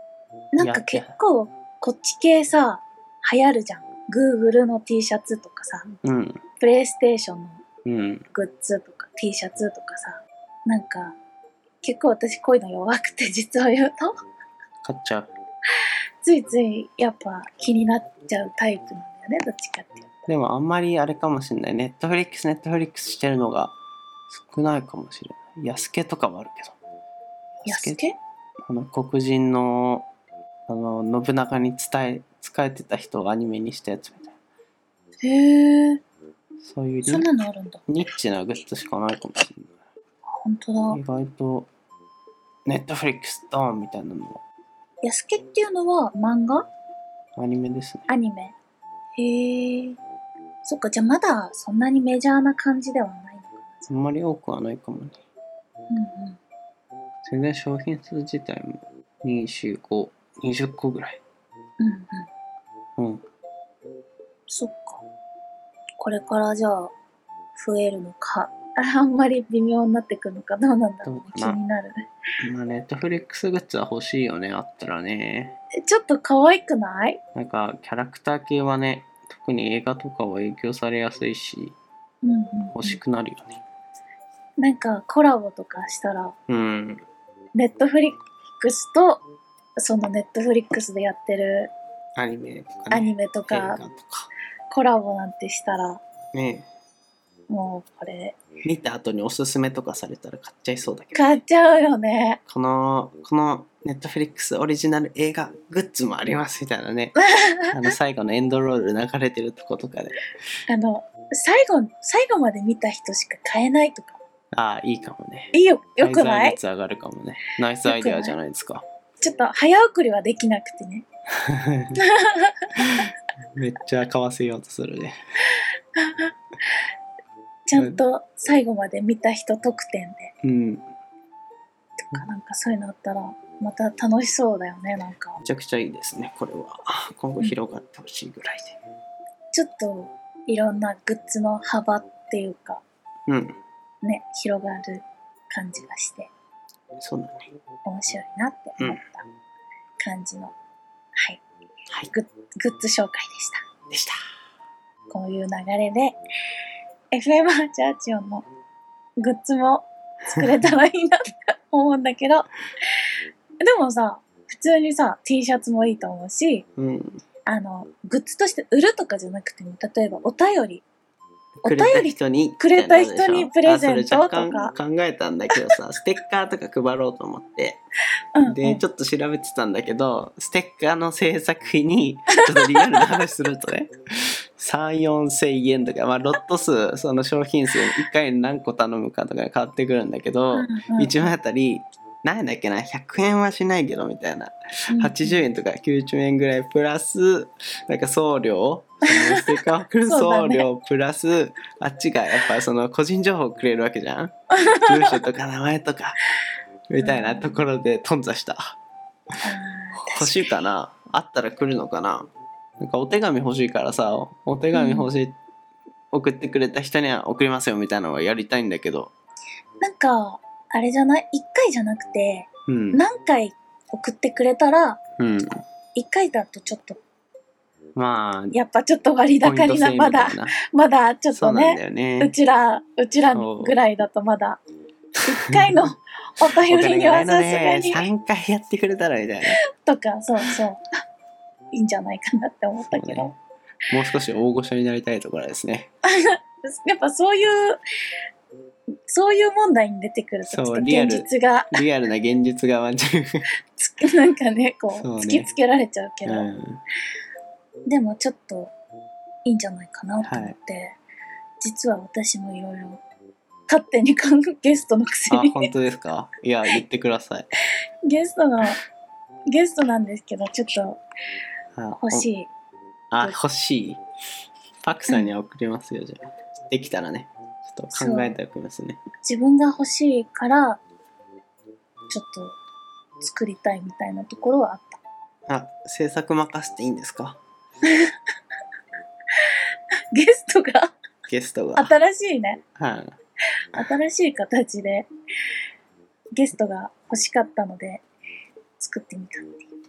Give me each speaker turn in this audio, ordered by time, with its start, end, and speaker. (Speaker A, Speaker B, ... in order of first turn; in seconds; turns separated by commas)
Speaker A: 0.5-5.9, Speaker B: 0.6-1.1, Speaker B: 6.0-6.4, Speaker A: 6.6-7.6, Speaker B: 7.8-8.2, Speaker A: 8.3-11.2, Speaker A: 11.8-14.2, Speaker B: 14.8-15.3, Speaker A: 16.2-20.3, Speaker B: 20.3-23.8, Speaker B: 24.3-26.8, Speaker B: 27.5-28.0, Speaker A: 27.6-28.1, Speaker B: 28.7-30.1, Speaker B: 30.7-34.3, Speaker A: 35.2-36.0, Speaker B: 36.6-37.3, Speaker A: 37.0-37.9, Speaker B: 37.9-39.7, Speaker A: 40.3-41.0, Speaker B: 40.9-41.7, Speaker B: 42.6-44.4, Speaker A: 45.0-46.7, Speaker B: 47.4-48.1, Speaker A: 48.1-48.5, Speaker A: 49.1-50.0, Speaker A: 50.6-53.9, Speaker B: 53.9-55.2, Speaker A: 55.9-56.4, Speaker B: 57.2-61.2, Speaker A: 61.8-62.3, Speaker B: 63.0-63.2, Speaker A: 64.5-65.0, Speaker A: 66.0-66.9, Speaker A: 67.5-72.1, Speaker B: 71.0-71.6, Speaker B: 72.4-75.5, Speaker A: 75.8-77.2, Speaker B: 77.3-81.8, Speaker A: 82.2-83.0, Speaker B: 82.7-83.6, Speaker A: 84.6-86.3, Speaker B: 86.5-87.0, Speaker A: 87.5-89.2, Speaker A: 89.8-91.7, Speaker B: 92.2-94.3, Speaker A: 92.9-93.8, Speaker A: 94.7-96.0, Speaker B: 96.3-96.7, Speaker A: 97.5-98.3, Speaker B: 98.6-101.3, Speaker A: 101.1-102.4, Speaker B: 102.5-110.3, Speaker A: 107.2-107.9, Speaker A: 110.7-114.2, Speaker B: 114.5-118.8, Speaker A: 115.5-116.6, Speaker A: 117.8-118.3, Speaker A: 119.2-121.0, Speaker B: 121.4-122.0, Speaker A: 122.0-123.1, Speaker B: 122.8-125.2, Speaker A: 126.0-126.3, Speaker A: 127.7-130.3, Speaker B: 127.7-128.0, Speaker B: 130.4-130.9, Speaker A: 132.1-135.4, Speaker B: 135.4-138.8, Speaker A: 139.5-142.8, Speaker B: 143.3-143.6, Speaker A: 144.0-146.3, Speaker B: 147.0-147.5, Speaker A: 147.8-149.2, Speaker A: 150.0-150.5, Speaker A: 151.2-151.4, Speaker A: 152.1-153.6, Speaker B: 153.9-154.2, Speaker A: 155.1-156.2, Speaker A: 157.1-158.4, Speaker A: 159.2-162.5, Speaker A: 163.6-166.7, Speaker B: 166.8-167.2, Speaker A: 167.4-170.8, Speaker B: 171.6-177.8, Speaker A: 171.6-174.7, Speaker A: 178.3-178.8, Speaker B: 178.4-206.2, Speaker A: 182.4-183.1, Speaker A: 190.5-191.3, Speaker A: 194.9-195.5, Speaker A: 199.1-199.5, Speaker A: 200.1-200.7, Speaker A: 204.6-205.2, Speaker B: 206.9-208.8, Speaker A: 207.0-207.6, Speaker A: 209.4-210.5, Speaker B: 210.1-215.3, Speaker A: 214.7-215.1, Speaker B: 216.1-219.1, Speaker A: 219.8-225.0, Speaker B: 222.7-223.0, Speaker B: 225.2-225.6, Speaker A: 225.9-227.0, Speaker B: 227.9-228.6, Speaker A: 228.5-234.6, Speaker B: 229.4-230.5, Speaker B: 231.3-232.3, Speaker B: 233.3-233.8, Speaker A: 235.2-238.1, Speaker B: 236.7-239.6, Speaker A: 239.8-240.8, Speaker A: 241.7-243.3, Speaker B: 242.8-243.4, Speaker B: 243.9-245.9, Speaker A: 246.2-247.8, Speaker A: 249.1-251.8, Speaker B: 250.4-253.4, Speaker A: 253.8-256.5, Speaker B: 254.9-255.5, Speaker B: 256.2-256.8, Speaker A: 257.9-258.7, Speaker A: 259.4-261.0, Speaker B: 260.2-260.5, Speaker A: 261.6-263.0, Speaker A: 263.7-265.7, Speaker B: 265.3-267.5, Speaker A: 268.1-268.8, Speaker A: 269.5-271.0, Speaker B: 271.8-272.3, Speaker A: 271.9-272.5, Speaker B: 273.1-274.0, Speaker B: 274.8-279.0, Speaker A: 277.9-278.4, Speaker A: 279.2-280.8, Speaker A: 282.1-282.6, Speaker A: 283.2-285.0, Speaker B: 285.5-287.4, Speaker A: 290.1-290.9, Speaker B: 291.3-291.9, Speaker A: 291.8-292.6, Speaker B: 292.8-293.1, Speaker A: 293.7-295.1, Speaker A: 296.3-298.0, Speaker A: 298.8-299.7